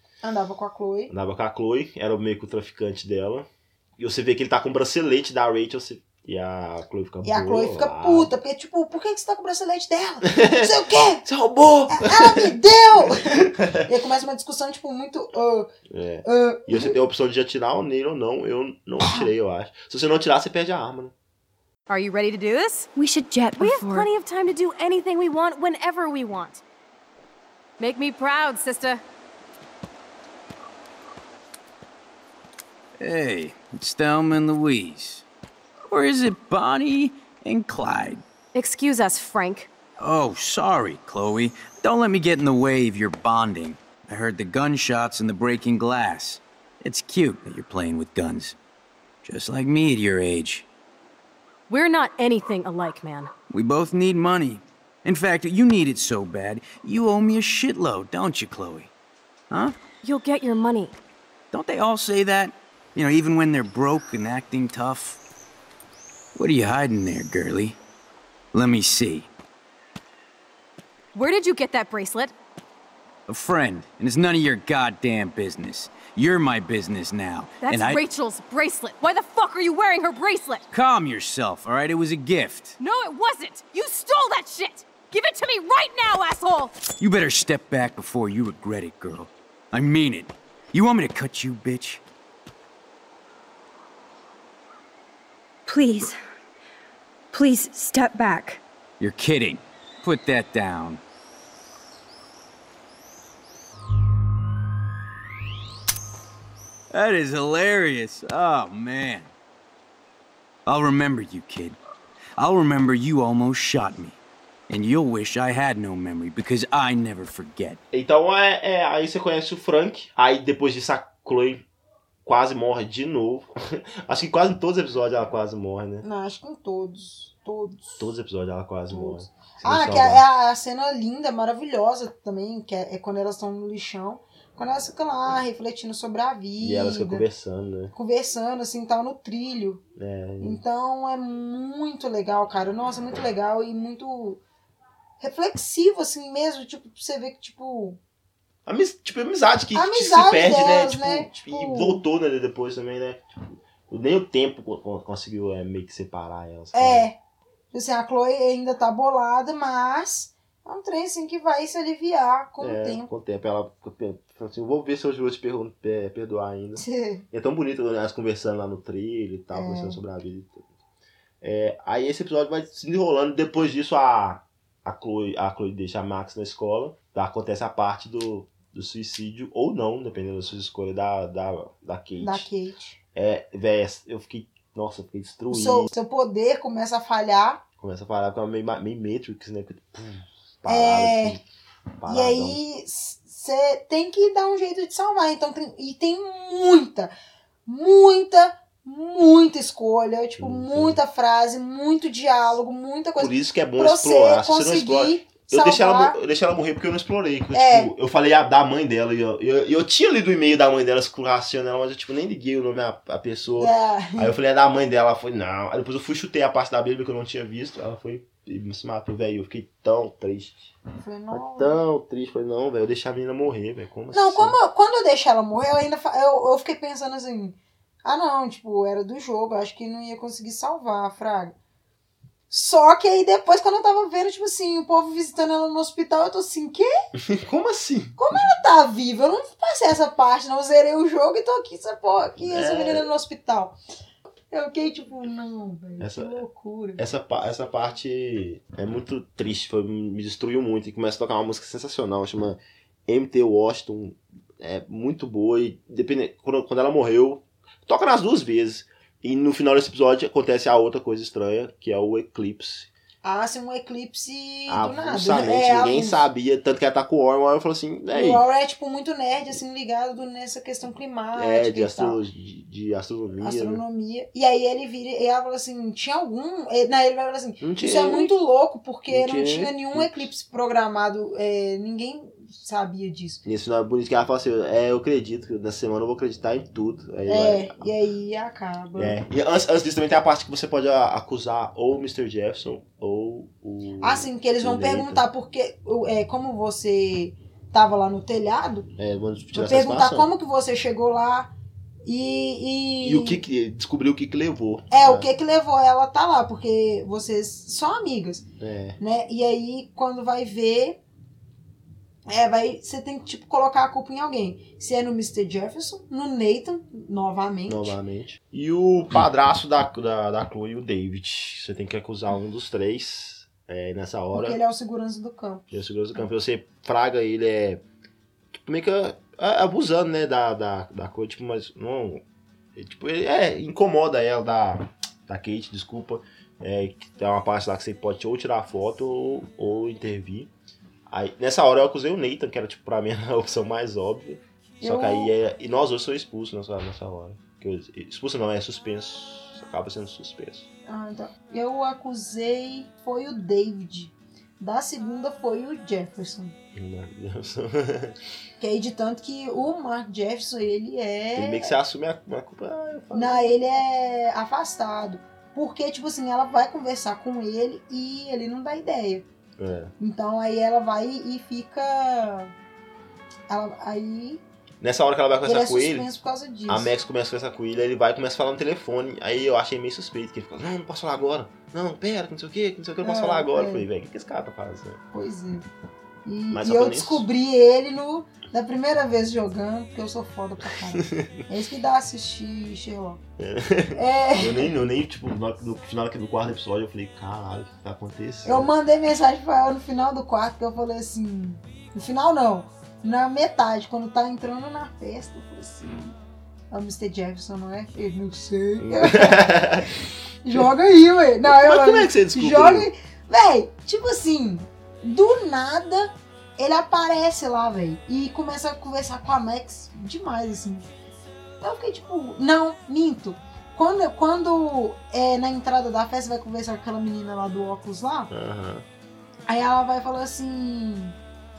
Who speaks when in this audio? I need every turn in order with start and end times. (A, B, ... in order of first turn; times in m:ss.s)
0:00.2-0:01.1 A
0:01.1-0:08.3 B
0:07.2-0:11.2 A
0:10.2-0:13.9 B
0:11.9-0:15.7 A
0:15.9-0:21.1 B
0:16.2-0:17.0 A
0:19.0-0:19.3 A
0:21.9-0:22.9 C
0:23.0-0:24.1 D
0:23.6-0:26.6 C
0:27.8-0:29.0 C
0:33.0-0:35.2 E
0:35.9-0:38.2 E
0:38.5-0:39.7 C
0:40.0-0:48.6 E
0:49.2-0:50.6 E
0:51.7-0:53.3 C
0:53.5-0:58.9 E
0:59.5-0:59.8 E
1:00.0-1:01.0 C
1:01.5-1:05.2 E
1:06.3-1:07.8 E
1:08.5-1:09.3 E
1:11.1-1:12.3 C
1:13.3-1:18.0 E
1:17.6-1:20.7 C
1:20.7-1:22.8 E
1:22.8-1:26.8 C
1:27.0-1:32.0 E
1:35.6-1:36.2 D
1:37.3-1:38.6 D
1:39.0-1:41.0 E
1:46.9-1:49.3 E
1:50.6-1:51.8 E
1:52.4-1:54.2 E
1:54.7-1:57.8 E
1:57.9-2:01.6 B
2:02.2-2:06.0 B
2:06.0-2:08.1 A
2:08.0-2:10.2 B
2:08.9-2:17.2 A
2:16.6-2:17.9 B
2:17.9-2:19.8 A
2:20.0-2:20.6 B
2:20.4-2:24.4 A
2:25.2-2:28.0 A
2:28.6-2:37.1 B
2:29.7-2:32.0 A
2:36.7-2:37.2 A
2:37.7-2:43.1 A
2:42.6-2:50.6 B
2:46.8-2:47.2 A
2:49.5-2:50.0 A
2:51.4-3:02.5 B
3:02.2-3:03.0 A
3:03.1-3:05.9 B
3:05.5-3:07.6 A
3:07.8-3:11.4 B
3:10.6-3:11.4 A
3:12.0-3:12.6 B
3:12.0-3:17.1 A
3:17.6-3:26.2 A
3:20.4-3:21.0 B
3:23.2-3:40.7 B
3:27.5-3:27.9 A
3:33.6-3:34.3 A
3:41.0-3:41.8 A
3:41.3-3:44.6 B
3:44.1-3:51.5 A
3:52.5-3:56.9 A
3:57.2-3:58.4 B
3:58.2-4:03.8 A
4:02.4-4:03.1 B
4:04.5-4:07.0 A
4:06.0-4:06.4 B
4:07.0-4:22.9 B
4:23.2-4:26.2 A
4:24.7-4:28.4 B
4:28.1-4:32.2 A
4:31.3-4:33.8 B
4:33.4-4:43.4 A
4:37.6-4:38.3 B
4:39.1-4:40.3 B
4:43.4-4:47.9 B
4:47.3-4:49.2 A
4:49.0-4:55.2 B
4:54.0-4:58.9 A
4:59.0-5:00.3 B
4:59.5-5:01.5 A
5:02.0-5:03.4 A
5:03.0-5:05.3 B
5:04.9-5:08.4 A
5:08.6-5:09.0 B
5:09.0-5:11.0 A
5:12.3-5:18.0 A
5:17.7-5:24.6 B
5:24.3-5:25.6 A
5:25.7-5:27.8 B
5:28.5-5:32.2 B
5:32.7-5:40.5 B
5:41.1-5:50.7 B
5:44.8-5:45.3 A
5:50.9-5:56.5 A
5:56.7-5:58.2 B
5:58.6-6:01.7 A
6:01.4-6:03.5 B
6:03.1-6:09.2 A
6:09.6-6:09.9 B
6:10.0-6:12.5 A
6:13.5-6:14.4 A
6:14.8-6:16.1 B
6:15.4-6:16.9 A
6:16.7-6:25.0 B
6:23.0-6:23.8 A
6:25.1-6:25.6 A
6:26.2-6:33.2 A
6:26.5-6:27.2 B
6:30.6-6:31.4 B
6:33.4-6:38.7 B
6:33.9-6:34.7 A
6:38.4-6:46.2 A
6:46.7-6:49.7 A
6:48.8-6:49.9 B
6:50.4-7:00.9 A
6:51.4-6:52.9 B
7:01.6-7:08.3 A
7:08.3-7:08.8 B
7:09.5-7:11.2 A